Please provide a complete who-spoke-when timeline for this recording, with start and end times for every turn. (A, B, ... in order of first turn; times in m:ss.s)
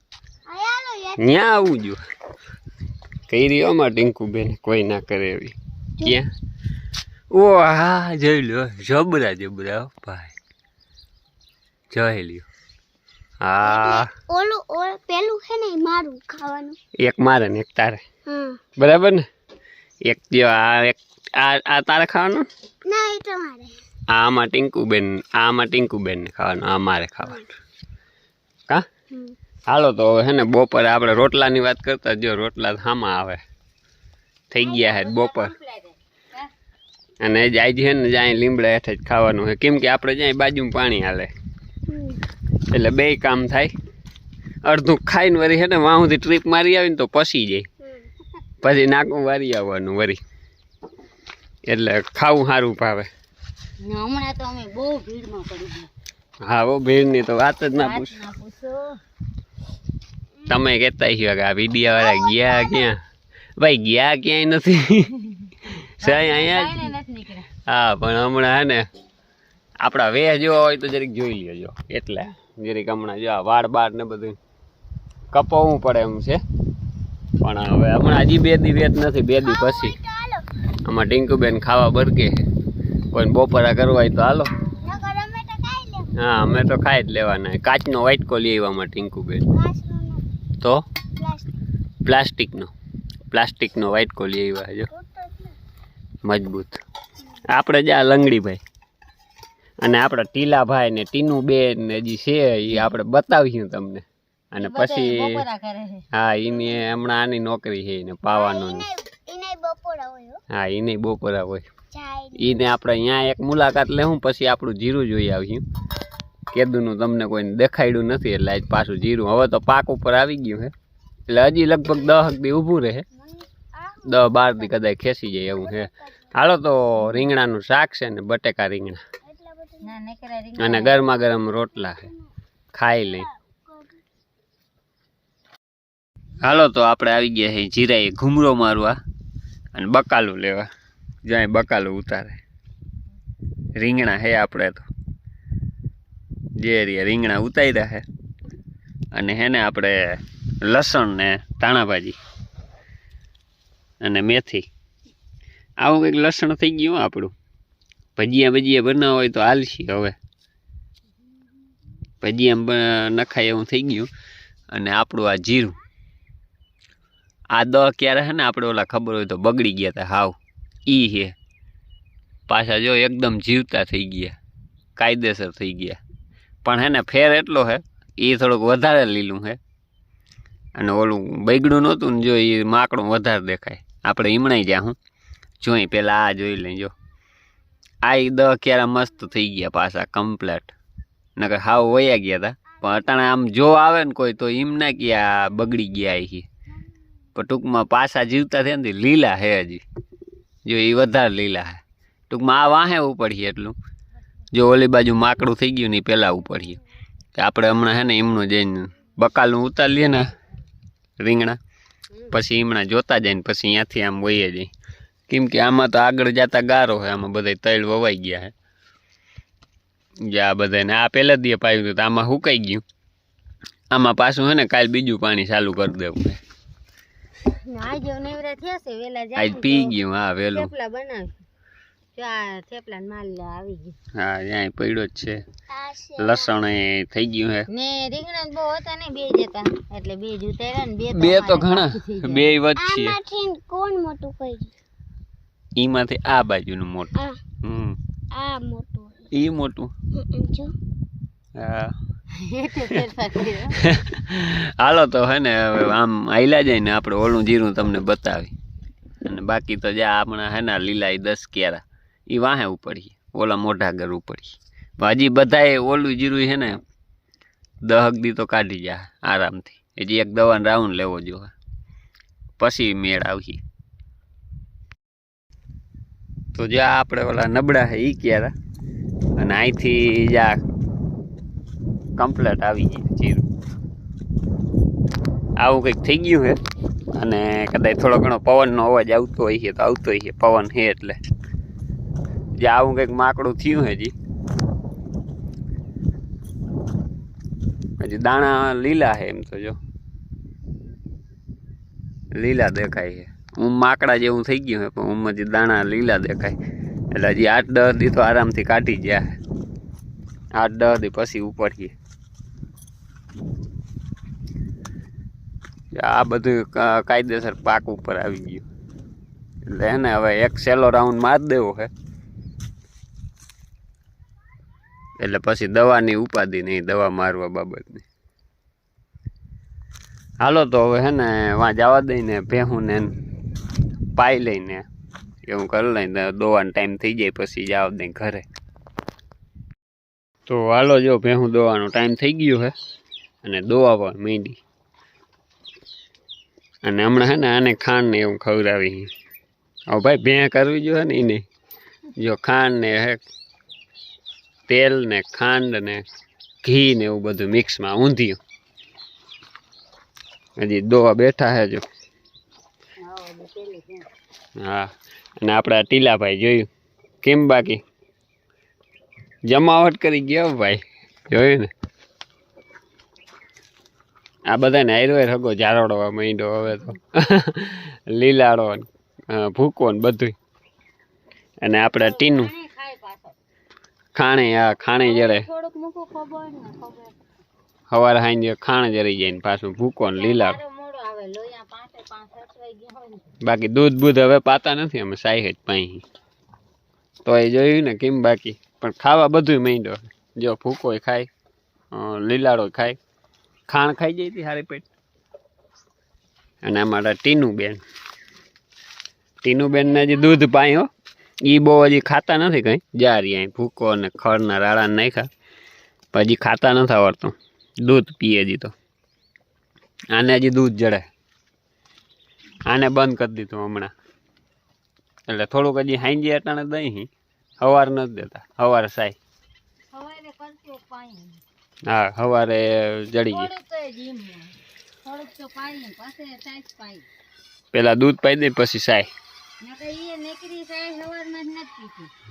0:00.5-0:01.2 A
0:01.2-0:02.0 B
0:03.3-0:06.3 B
0:07.3-0:10.3 B
0:11.9-0:12.4 B
0:13.4-0:14.1 B
0:13.6-0:16.8 A
0:17.0-0:18.0 B
0:18.3-0:18.6 A
0:18.8-0:19.2 B
0:20.0-0:22.4 B
0:22.9-0:23.8 A
0:24.1-0:27.5 B
0:29.7-0:33.4 B
0:34.5-0:35.5 B
0:34.8-0:35.9 C
0:37.2-0:41.3 B
0:41.9-0:42.2 A
0:42.7-0:43.7 B
0:44.6-0:47.6 B
0:48.6-0:50.2 B
0:51.7-0:53.1 B
0:53.8-0:55.9 C
0:56.4-0:58.2 B
0:57.7-0:59.0 C
1:00.4-1:03.0 B
1:03.6-1:06.9 B
1:06.0-1:07.5 C
1:07.6-1:08.8 B
1:09.8-1:14.4 B
1:15.3-1:16.4 B
1:17.4-1:20.0 B
1:19.4-1:20.5 A
1:20.8-1:22.4 B
1:23.1-1:24.5 B
1:24.8-1:26.2 A
1:26.1-1:29.4 B
1:29.5-1:30.2 A
1:31.2-1:31.5 A
1:32.0-1:32.7 B
1:33.3-1:34.9 B
1:34.9-1:35.5 A
1:36.2-1:36.8 B
1:37.5-1:38.6 B
1:39.8-1:45.4 B
1:44.6-1:46.1 C
1:46.1-1:48.9 B
1:48.3-1:50.4 A
1:50.5-1:51.7 B
1:51.9-1:52.5 A
1:52.4-1:55.6 B
1:56.5-2:00.7 B
2:01.3-2:03.0 B
2:03.6-2:04.0 A
2:04.0-2:09.0 B
2:09.2-2:09.9 A
2:09.8-2:11.0 C
2:10.6-2:12.1 B
2:12.7-2:13.3 B
2:13.5-2:13.8 A
2:16.4-2:19.0 B
2:19.7-2:20.7 B
2:21.2-2:22.4 B
2:23.8-2:24.8 B
2:26.6-2:28.0 B
2:29.1-2:32.2 B
2:34.0-2:34.7 B
2:35.8-2:37.3 B
2:38.2-2:40.2 B
2:42.2-2:44.1 B
2:44.7-2:45.8 B
2:47.5-2:51.3 B
2:52.5-2:54.4 B
2:55.0-2:56.0 B
2:56.6-2:59.6 B
3:00.7-3:05.0 B
3:05.6-3:06.9 B
3:08.0-3:10.7 B
3:11.4-3:16.5 B
3:17.3-3:19.8 B
3:20.6-3:23.8 B
3:24.5-3:26.8 B
3:27.3-3:30.3 B
3:31.2-3:31.6 B
3:32.2-3:34.7 B
3:35.3-3:38.5 B
3:40.2-3:42.8 B
3:43.9-3:46.4 B
3:47.5-3:50.0 C
3:49.4-3:50.7 B
3:50.5-3:51.3 C
3:52.2-3:54.0 C
3:54.2-3:55.4 B
3:55.7-3:56.6 A
3:56.2-3:57.7 B
3:57.7-4:02.6 C
4:01.1-4:03.2 B
4:02.8-4:04.7 A
4:05.8-4:08.0 B
4:07.2-4:07.4 A
4:08.3-4:09.3 A
4:09.3-4:09.9 B
4:10.1-4:10.8 A
4:11.6-4:12.0 B
4:12.3-4:13.8 C
4:13.7-4:18.5 B
4:19.2-4:26.8 B
4:27.8-4:31.5 B
4:32.6-4:33.6 B
4:36.5-4:38.5 B
4:39.4-4:40.6 B
4:42.2-4:43.4 B
4:45.6-4:46.6 B
4:47.1-4:51.2 B
4:52.6-4:54.1 B
4:58.0-4:59.8 B
5:02.4-5:06.6 B
5:07.1-5:09.3 B
5:10.5-5:12.0 B
5:15.9-5:18.6 B
5:19.6-5:21.9 B
5:25.2-5:28.0 B
5:30.4-5:33.1 B
5:34.2-5:34.9 B
5:35.4-5:38.4 B
5:40.4-5:42.7 B
5:43.4-5:44.6 B
5:46.8-5:49.1 B
5:49.9-5:51.4 B
5:52.2-5:53.2 B
5:54.7-5:56.0 B
5:56.6-5:58.4 B
6:00.6-6:01.8 B
6:03.0-6:04.1 C
6:04.6-6:06.7 B
6:07.2-6:07.8 B
6:09.5-6:11.7 B
6:14.5-6:20.3 B
6:21.6-6:22.5 B
6:21.9-6:23.4 C
6:24.1-6:25.5 B
6:25.0-6:27.1 C
6:27.9-6:30.6 B
6:30.1-6:33.4 C
6:33.4-6:36.0 B
6:37.2-6:41.3 B
6:41.9-6:43.0 B
6:43.7-6:44.9 B
6:46.6-6:47.8 B
6:49.4-6:50.9 B
6:51.4-6:55.3 B
6:56.1-6:58.7 B
7:00.1-7:01.1 B
7:02.7-7:03.9 B
7:05.3-7:07.1 B
7:07.6-7:09.2 B
7:09.9-7:11.4 C
7:11.9-7:13.5 B
7:13.3-7:17.1 C
7:17.7-7:19.1 B
7:19.6-7:22.1 C